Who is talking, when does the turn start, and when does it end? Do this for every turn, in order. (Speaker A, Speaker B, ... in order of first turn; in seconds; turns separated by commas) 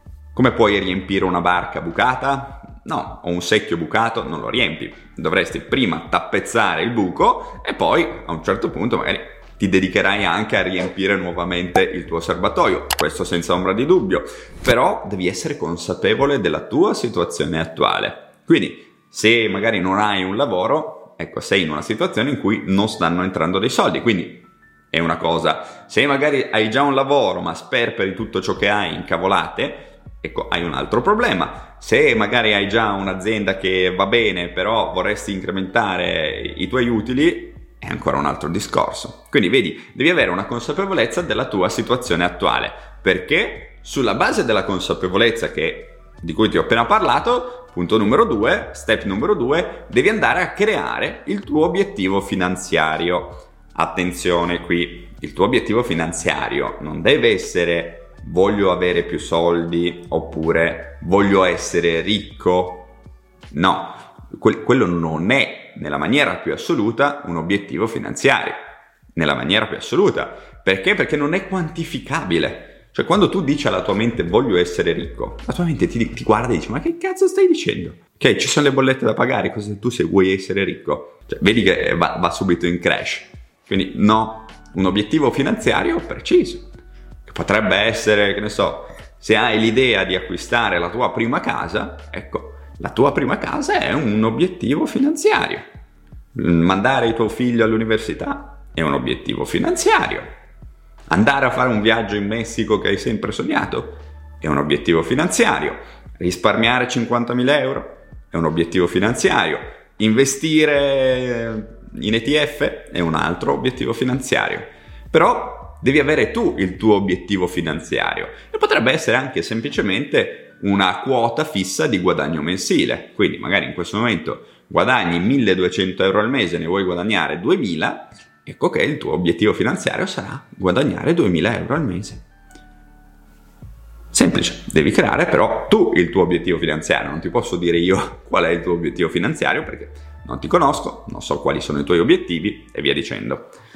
Speaker A: 0.3-62.9, Speaker A: 63.5-86.7, Speaker A: 87.2-95.6, Speaker A: 96.3-100.3, Speaker A: 101.1-132.2, Speaker A: 134.1-143.5